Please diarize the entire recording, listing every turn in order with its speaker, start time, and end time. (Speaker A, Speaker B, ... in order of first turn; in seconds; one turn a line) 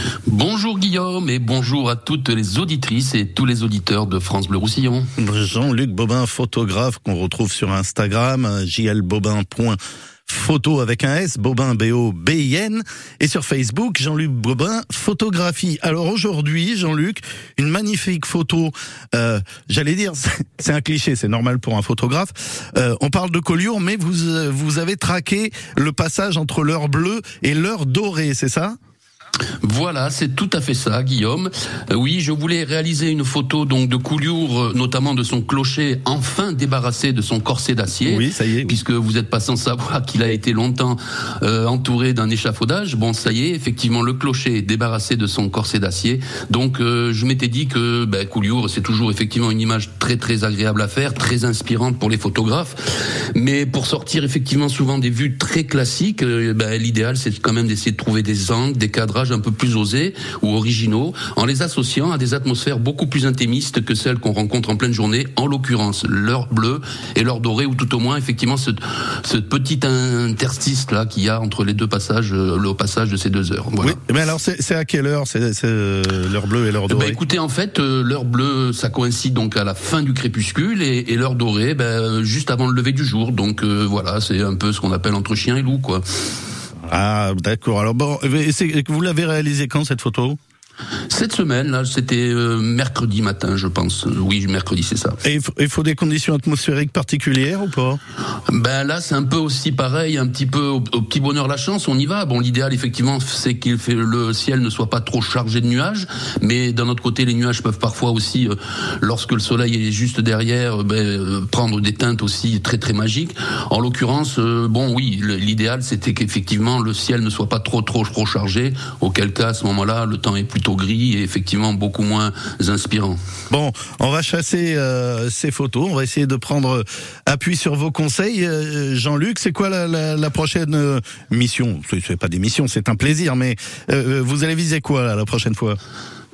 Speaker A: 0.3-5.1
Speaker B: 5.2-28.8
Speaker A: 29.6-52.8
Speaker B: 38.0-38.8
Speaker A: 53.3-74.0
Speaker B: 73.8-77.2
Speaker A: 76.9-86.0
Speaker B: 86.9-90.4
Speaker A: 91.1-95.2
Speaker B: 95.2-98.0
Speaker A: 98.5-123.2
Speaker B: 123.5-135.8